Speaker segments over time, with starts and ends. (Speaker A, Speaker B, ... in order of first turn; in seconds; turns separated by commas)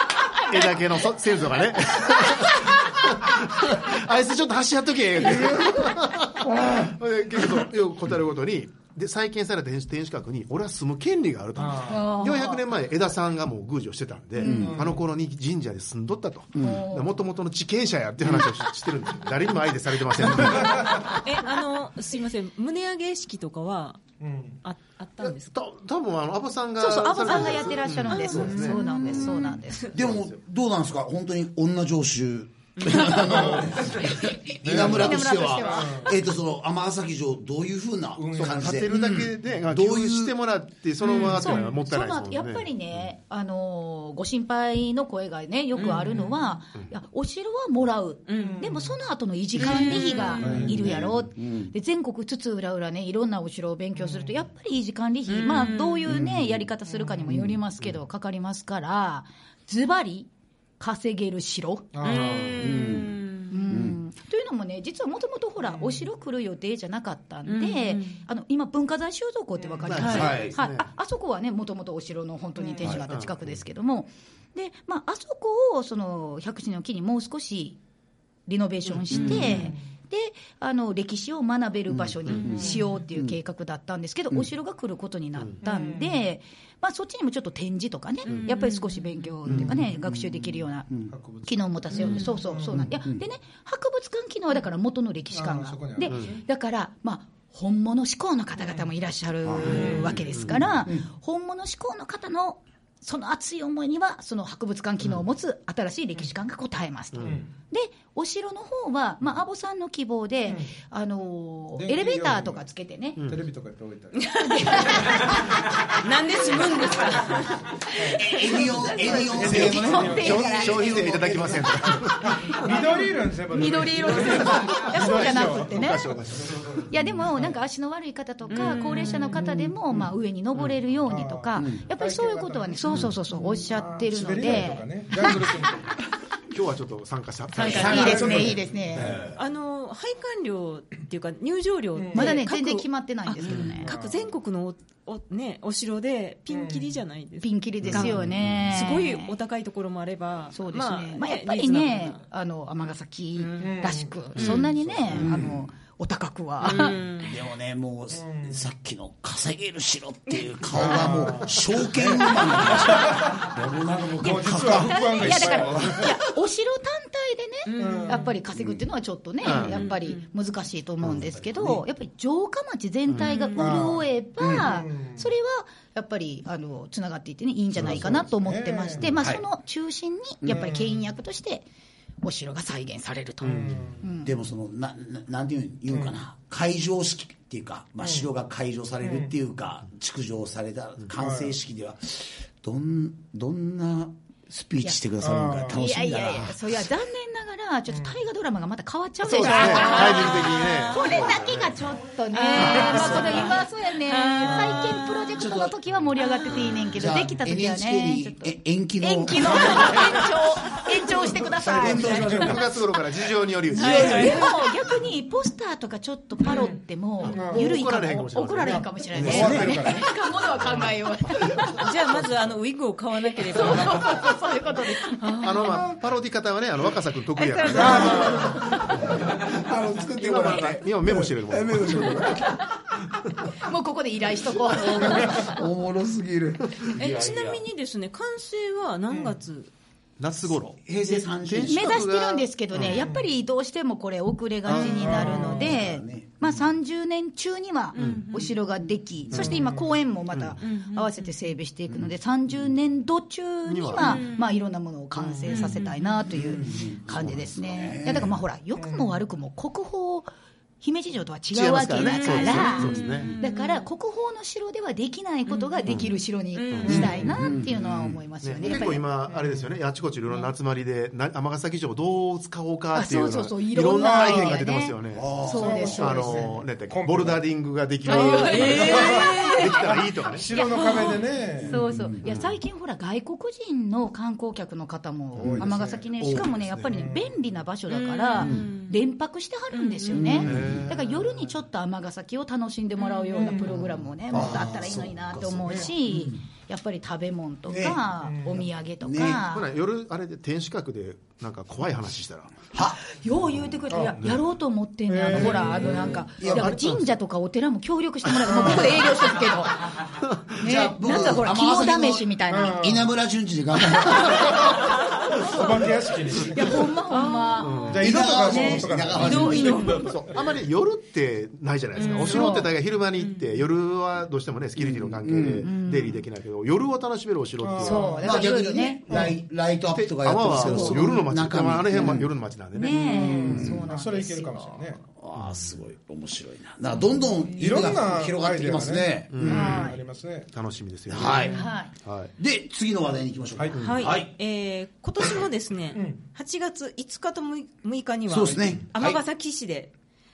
Speaker A: 0.3-0.7, Speaker B: 0.4-21.2, Speaker A: 2.1-2.4, Speaker A: 5.5-5.9, Speaker C: 6.6-6.8, Speaker C: 11.6-11.9, Speaker A: 11.8-12.6, Speaker A: 14.4-14.8, Speaker D: 14.4-14.9, Speaker C: 14.4-15.0, Speaker D: 16.6-16.8, Speaker A: 16.6-17.1, Speaker C: 20.6-21.0, Speaker E: 21.0-24.1, Speaker C: 24.2-24.6, Speaker E: 24.6-25.6, Speaker B: 25.2-30.3, Speaker A: 26.8-29.9, Speaker E: 27.3-29.9, Speaker D: 29.9-40.4, Speaker E: 32.8-33.2, Speaker C: 33.3-33.8, Speaker A: 33.5-36.2, Speaker C: 34.6-35.1, Speaker C: 35.7-36.1, Speaker C: 38.2-38.7, Speaker B: 38.4-42.7, Speaker E: 41.0-41.7, Speaker A: 41.1-62.0, Speaker E: 45.8-46.4, Speaker E: 48.3-48.6, Speaker C: 48.4-48.9, Speaker E: 49.6-50.5, Speaker D: 49.6-51.7, Speaker C: 50.4-51.0, Speaker C: 54.0-54.4, Speaker E: 55.3-56.1, Speaker D: 56.1-56.7, Speaker D: 57.3-57.6, Speaker C: 61.9-62.5, Speaker E: 62.0-63.6, Speaker D: 62.6-63.2, Speaker A: 63.5-77.8, Speaker D: 63.7-64.0, Speaker C: 65.7-66.0, Speaker E: 67.5-68.2, Speaker B: 69.8-70.9, Speaker E: 69.9-70.3, Speaker D: 70.0-70.6, Speaker B: 72.9-73.5, Speaker A: 78.5-90.9, Speaker E: 79.1-79.7, Speaker D: 79.1-79.6, Speaker C: 79.4-79.8, Speaker D: 81.9-83.4, Speaker C: 82.6-82.8, Speaker C: 85.7-86.2, Speaker E: 88.3-89.2, Speaker D: 89.5-91.1, Speaker C: 91.1-92.9, Speaker A: 91.4-113.2, Speaker E: 92.0-92.3, Speaker D: 92.7-93.2, Speaker C: 95.3-96.4, Speaker B: 96.1-96.3, Speaker D: 99.5-100.0, Speaker C: 99.7-100.1, Speaker B: 100.1-100.6, Speaker D: 100.5-101.0, Speaker B: 107.2-107.4, Speaker C: 110.5-110.7, Speaker C: 111.8-112.6, Speaker C: 113.2-116.0, Speaker E: 114.2-117.7, Speaker A: 114.4-116.0, Speaker A: 116.5-117.2, Speaker A: 118.0-121.4, Speaker D: 118.1-121.7, Speaker C: 119.0-127.5, Speaker B: 120.1-122.8, Speaker A: 122.4-126.2, Speaker B: 125.0-126.8, Speaker A: 126.9-135.5, Speaker E: 128.5-129.5, Speaker D: 129.3-129.8, Speaker C: 131.1-135.9, Speaker D: 131.6-131.8, Speaker B: 136.5-138.6, Speaker E: 137.6-138.1, Speaker A: 137.6-139.2, Speaker D: 137.6-139.4, Speaker C: 137.7-139.1, Speaker E: 139.3-152.2, Speaker C: 142.0-142.3, Speaker A: 142.1-143.9, Speaker B: 143.5-143.8, Speaker C: 143.8-144.2, Speaker C: 146.5-146.9, Speaker A: 147.4-149.4, Speaker D: 147.8-148.7, Speaker B: 147.9-148.6, Speaker A: 150.5-157.0, Speaker E: 153.4-153.7, Speaker C: 153.6-154.4, Speaker E: 154.3-154.7, Speaker D: 155.1-155.6, Speaker E: 156.6-157.4, Speaker D: 157.2-166.0, Speaker C: 158.2-158.6, Speaker C: 160.7-162.3, Speaker C: 162.9-163.4, Speaker C: 164.2-166.2, Speaker A: 164.6-181.7, Speaker E: 167.7-168.3, Speaker C: 167.8-168.3, Speaker D: 168.6-168.8, Speaker B: 169.4-169.8, Speaker E: 169.4-170.2, Speaker D: 171.0-171.8, Speaker B: 173.1-173.3, Speaker E: 173.2-173.8, Speaker C: 173.6-174.1, Speaker D: 174.4-174.7, Speaker C: 174.6-175.3, Speaker D: 177.8-178.2, Speaker C: 177.8-179.1, Speaker D: 179.0-179.4, Speaker D: 180.4-180.7, Speaker C: 180.5-181.0, Speaker A: 182.2-184.3, Speaker C: 183.4-184.1, Speaker B: 183.5-183.8, Speaker D: 183.8-196.8, Speaker C: 189.0-189.3, Speaker C: 191.2-191.6, Speaker C: 195.2-195.8, Speaker A: 195.7-212.5, Speaker C: 197.9-198.2, Speaker E: 199.3-201.3, Speaker B: 199.3-201.8, Speaker E: 202.3-205.4, Speaker D: 202.6-203.6, Speaker C: 204.4-205.1, Speaker D: 205.4-205.8, Speaker E: 206.2-206.8, Speaker D: 206.8-210.2, Speaker C: 209.5-210.2, Speaker C: 211.2-212.6, Speaker D: 211.6-212.7, Speaker B: 212.4-214.2, Speaker E: 213.7-214.7, Speaker D: 213.7-214.4, Speaker A: 213.8-222.0, Speaker E: 216.4-216.8, Speaker B: 217.2-218.9, Speaker C: 217.3-217.7, Speaker C: 218.7-220.1, Speaker D: 219.1-219.9, Speaker E: 221.8-224.4, Speaker A: 223.3-225.9, Speaker E: 225.0-225.8, Speaker B: 225.4-228.5, Speaker A: 227.4-229.1, Speaker C: 227.7-228.6, Speaker D: 227.8-232.6, Speaker B: 230.1-232.3, Speaker C: 231.9-232.2, Speaker A: 233.6-235.6, Speaker D: 234.6-237.6, Speaker E: 237.0-239.7, Speaker B: 240.2-243.1, Speaker D: 240.8-241.9, Speaker A: 241.7-260.3, Speaker C: 242.9-243.2, Speaker B: 244.7-245.6, Speaker C: 244.8-245.7, Speaker D: 245.0-246.6, Speaker E: 247.9-248.6, Speaker B: 248.0-248.2, Speaker B: 249.3-249.6, Speaker C: 249.3-250.0, Speaker B: 250.3-250.6, Speaker E: 250.6-251.3, Speaker B: 253.7-254.2, Speaker E: 253.9-254.5, Speaker E: 255.4-256.2, Speaker D: 256.3-258.4, Speaker C: 258.8-259.1, Speaker A: 260.8-269.0, Speaker B: 261.5-263.3, Speaker E: 261.9-263.9, Speaker E: 265.5-267.3, Speaker B: 265.9-266.1, Speaker B: 266.7-267.1, Speaker D: 266.9-268.2, Speaker B: 268.4-275.4, Speaker C: 269.3-269.7, Speaker A: 272.9-276.5, Speaker C: 274.1-274.6, Speaker D: 275.1-276.0, Speaker C: 275.4-277.4, Speaker B: 275.9-280.6, Speaker A: 278.1-299.7, Speaker E: 278.1-279.6, Speaker C: 278.2-281.8, Speaker E: 280.7-281.2, Speaker D: 281.6-282.4, Speaker D: 285.4-286.8, Speaker C: 285.4-286.1, Speaker C: 286.9-287.3, Speaker E: 287.9-289.0, Speaker D: 288.4-288.7, Speaker E: 289.7-290.4, Speaker D: 290.1-290.9, Speaker B: 290.4-291.3, Speaker E: 293.0-293.6, Speaker C: 293.3-293.8, Speaker D: 294.3-296.4, Speaker D: 297.7-298.0, Speaker C: 298.2-298.6, Speaker D: 299.0-299.4, Speaker B: 299.5-302.6, Speaker D: 302.7-303.0, Speaker A: 303.1-310.0, Speaker C: 303.9-304.2, Speaker B: 304.2-304.4, Speaker C: 305.1-306.3, Speaker D: 305.8-306.8, Speaker B: 306.4-307.1, Speaker C: 308.5-308.9, Speaker D: 310.6-314.7, Speaker A: 310.6-313.0, Speaker C: 312.5-313.0, Speaker C: 314.5-316.9, Speaker A: 316.5-318.6, Speaker E: 317.1-320.2, Speaker B: 317.6-318.2, Speaker C: 317.9-319.9, Speaker D: 318.0-320.1, Speaker A: 319.7-320.1, Speaker B: 320.0-328.1, Speaker E: 322.0-323.6, Speaker A: 322.1-322.7, Speaker D: 324.8-325.7, Speaker A: 325.6-326.2, Speaker C: 327.6-328.2, Speaker A: 327.8-329.2, Speaker D: 328.2-332.3, Speaker C: 329.1-329.4, Speaker B: 329.9-333.1, Speaker A: 330.5-331.1, Speaker A: 332.8-335.0, Speaker C: 333.0-335.0, Speaker D: 333.1-333.9, Speaker D: 335.2-339.9, Speaker C: 337.5-340.5, Speaker B: 339.3-339.9, Speaker A: 339.5-340.0, Speaker B: 340.5-342.3, Speaker D: 341.1-341.6, Speaker C: 341.2-341.7, Speaker A: 341.5-341.9, Speaker D: 342.4-344.3, Speaker B: 343.7-344.0, Speaker E: 343.8-349.9, Speaker D: 348.3-349.2